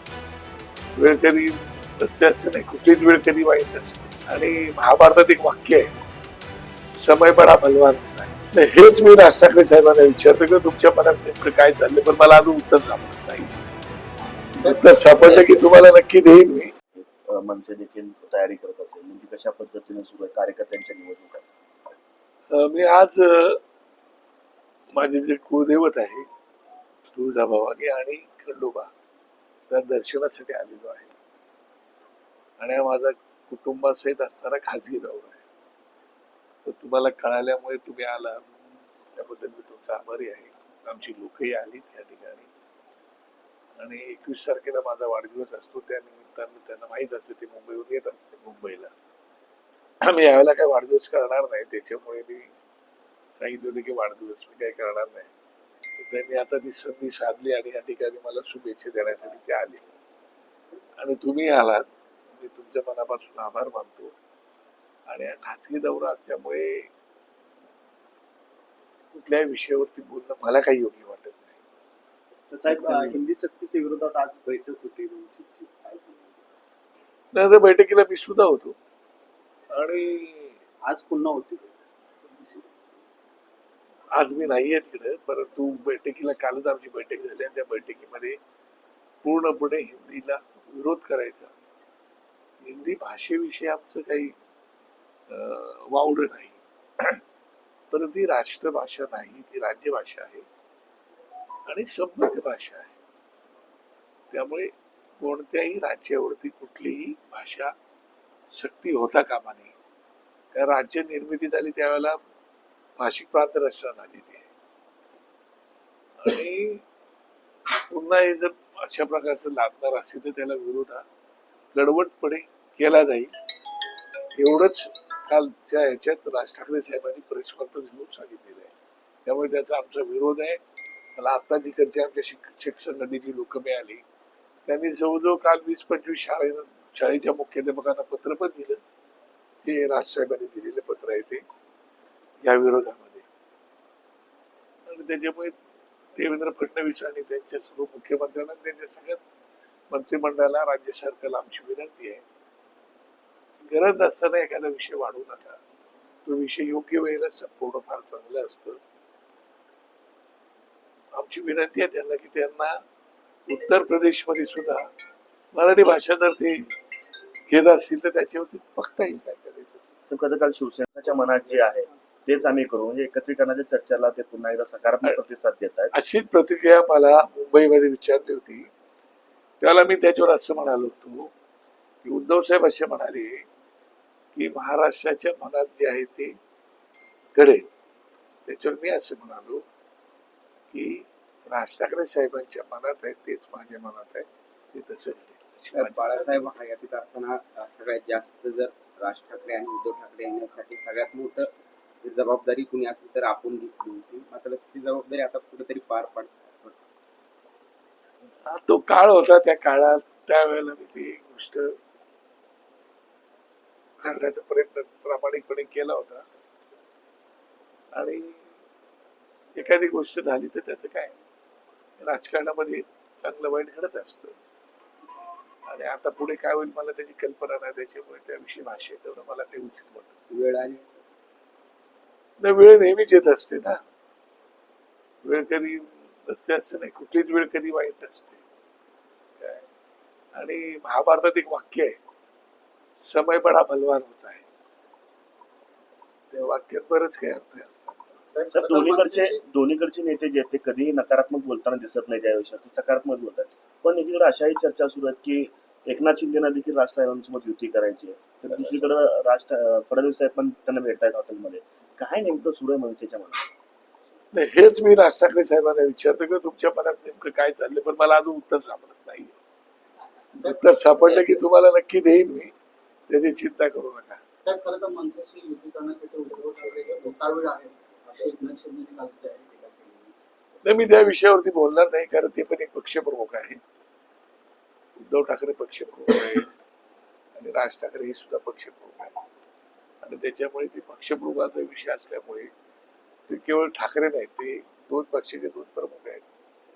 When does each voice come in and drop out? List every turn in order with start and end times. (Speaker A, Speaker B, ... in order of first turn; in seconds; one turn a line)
Speaker A: 1.0-5.9
Speaker A: 6.9-13.5
Speaker A: 14.6-16.7
Speaker B: 17.0-21.4
Speaker A: 22.5-23.6
Speaker A: 24.9-26.3
Speaker A: 27.1-28.9
Speaker A: 29.7-31.1
Speaker A: 32.6-35.5
Speaker A: 36.6-38.5
Speaker A: 39.1-42.5
Speaker A: 43.8-48.9
Speaker A: 50.0-52.6
Speaker A: 53.3-55.3
Speaker A: 56.0-59.8
Speaker A: 61.0-64.1
Speaker A: 65.1-66.9
Speaker A: 69.1-71.6
Speaker C: 72.5-76.4
Speaker B: 72.7-73.1
Speaker A: 77.3-78.8
Speaker A: 79.7-80.6
Speaker C: 80.8-81.7
Speaker A: 84.1-88.4
Speaker A: 89.2-91.5
Speaker A: 92.6-94.3
Speaker A: 95.3-97.2
Speaker A: 97.9-100.5
Speaker A: 101.7-103.0
Speaker A: 104.3-107.7
Speaker A: 108.5-109.7
Speaker A: 110.5-112.2
Speaker A: 113.0-114.5
Speaker A: 116.2-116.8
Speaker A: 117.8-121.0
Speaker A: 121.7-123.3
Speaker A: 124.4-128.7
Speaker A: 129.2-130.6
Speaker A: 131.2-134.0
Speaker A: 134.7-138.8
Speaker A: 139.6-141.4
Speaker A: 142.4-143.2
Speaker A: 144.9-145.6
Speaker A: 146.2-149.2
Speaker A: 149.9-152.2
Speaker A: 153.7-155.6
Speaker A: 156.2-158.8
Speaker A: 161.1-162.8
Speaker A: 163.5-164.9
Speaker A: 165.5-166.7
Speaker A: 167.5-169.9
Speaker B: 170.1-175.9
Speaker A: 175.9-178.7
Speaker A: 179.6-181.3
Speaker A: 182.0-183.4
Speaker A: 184.3-186.3
Speaker A: 187.3-187.7
Speaker A: 188.5-189.6
Speaker A: 190.7-196.4
Speaker D: 195.7-201.5
Speaker D: 202.0-206.8
Speaker A: 208.5-211.8
Speaker A: 214.0-216.2
Speaker A: 217.9-218.5
Speaker A: 219.6-221.2
Speaker A: 222.0-224.4
Speaker A: 225.7-230.2
Speaker D: 230.3-231.0
Speaker A: 232.4-233.8
Speaker A: 235.2-238.4
Speaker A: 240.3-242.0
Speaker A: 243.0-244.4
Speaker A: 246.3-248.2
Speaker E: 248.3-249.4
Speaker B: 248.5-263.5
Speaker A: 264.3-269.4
Speaker A: 270.4-272.5
Speaker A: 273.1-274.2
Speaker E: 274.4-280.0
Speaker A: 280.6-283.7
Speaker A: 285.0-286.5
Speaker A: 287.4-289.2
Speaker A: 290.0-292.5
Speaker A: 293.3-296.3